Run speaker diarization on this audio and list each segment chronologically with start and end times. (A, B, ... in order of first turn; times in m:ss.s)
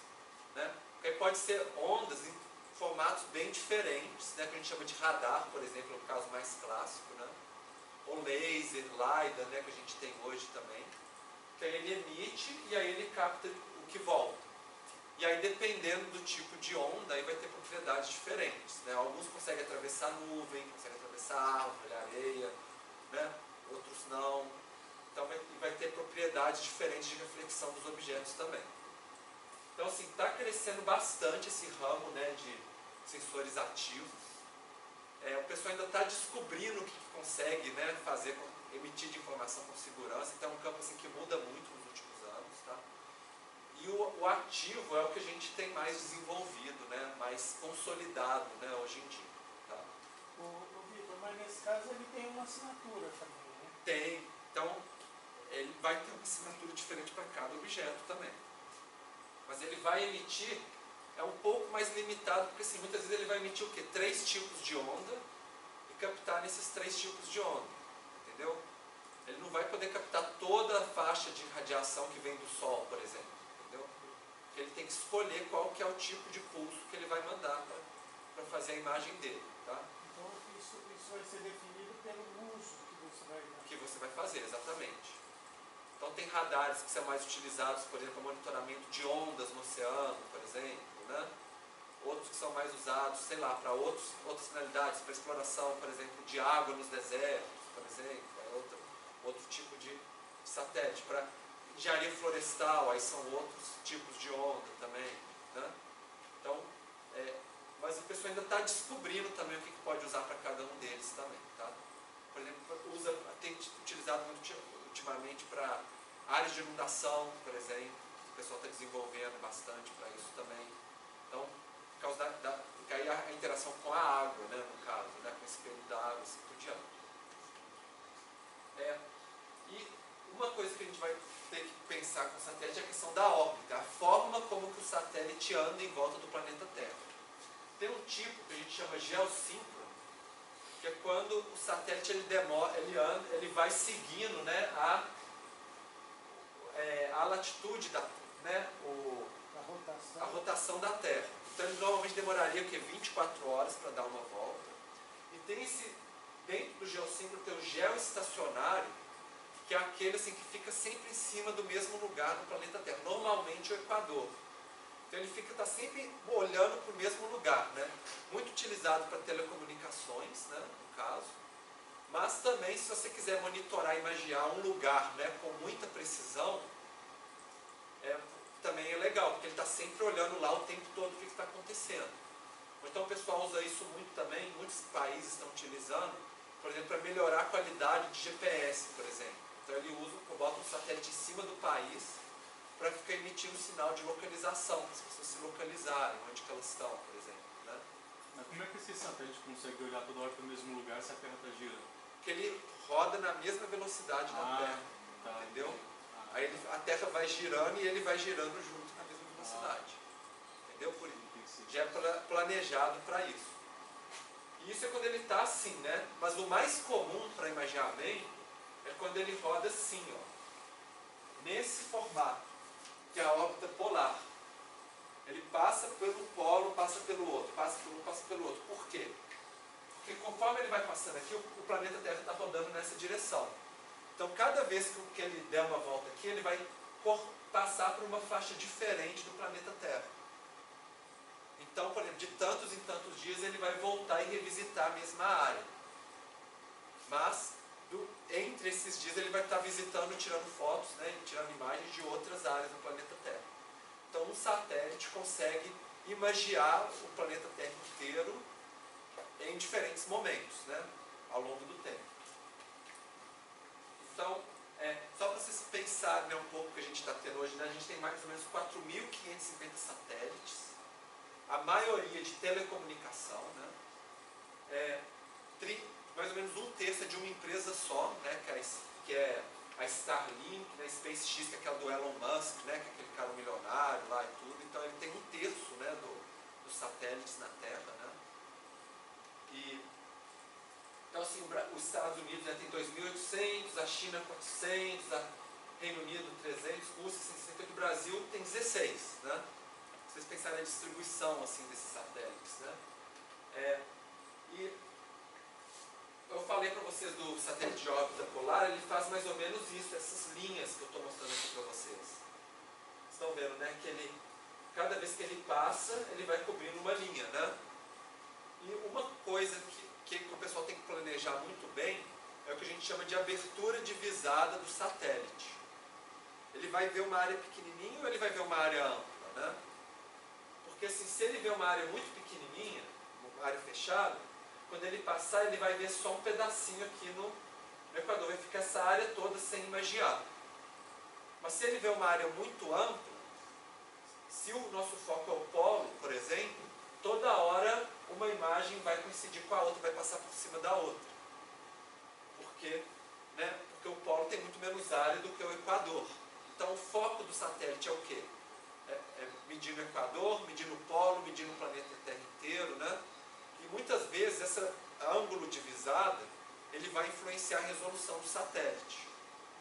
0:00.5-0:07.3 A
0:08.0-0:10.9 A
0:11.6-0:14.4 A
0:15.2-0:22.5 A
0:23.1-0:24.6 A
0:25.1-0:28.7 A
0:29.7-0:34.2 A
0:35.2-0:42.8 A
0:43.7-0:49.9 A
0:50.3-0:53.8 B
0:53.8-0:54.8 A
0:55.4-0:58.4 A
0:59.4-1:05.2 A
1:05.9-1:08.6 A
1:09.2-1:13.9 A
1:14.5-1:19.9 A
1:20.0-1:23.7 B
1:23.6-1:25.2 A
1:26.0-1:31.3 A
1:32.0-1:45.7 A
1:46.4-1:51.8 A
1:52.3-2:00.8 A
2:01.3-2:07.0 A
2:08.7-2:09.0 A
2:09.6-2:17.1 A
2:17.8-2:20.0 A
2:20.8-2:25.1 A
2:26.3-2:29.3 A
2:29.5-2:30.4 B
2:30.2-2:34.8 A
2:35.3-2:39.0 A
2:39.6-2:44.4 A
2:45.1-2:51.4 A
2:52.1-2:56.7 A
2:58.0-3:02.2 A
3:02.8-3:12.2 A
3:12.8-3:17.8 A
3:18.3-3:21.9 C
3:22.2-3:25.8 A
3:24.2-3:26.7 C
3:26.3-3:30.0 A
3:29.4-3:29.8 C
3:30.6-3:33.6 A
3:30.9-3:31.9 C
3:34.6-3:40.3 A
3:41.4-3:42.5 A
3:43.1-3:44.2 A
3:45.2-3:49.2 A
3:49.9-3:53.6 A
3:54.2-4:00.1 A
4:01.6-4:05.7 A
4:07.0-4:13.4 A
4:14.1-4:18.4 A
4:19.4-4:22.1 A
4:24.0-4:30.8 A
4:31.5-4:33.7 A
4:34.7-4:35.0 A
4:35.6-4:48.2 A
4:49.5-4:49.8 A
4:51.1-4:59.4 A
5:00.1-5:02.8 A
5:03.5-5:03.8 A
5:04.4-5:04.8 A
5:06.3-5:12.2 A
5:13.1-5:14.2 A
5:14.7-5:17.6 A
5:18.6-5:25.6 A
5:26.5-5:29.6 A
5:30.6-5:37.4 A
5:37.9-5:40.2 A
5:41.4-5:43.4 A
5:44.3-5:51.2 A
5:52.3-5:58.3 A
5:58.9-6:03.0 A
6:03.6-6:09.1 A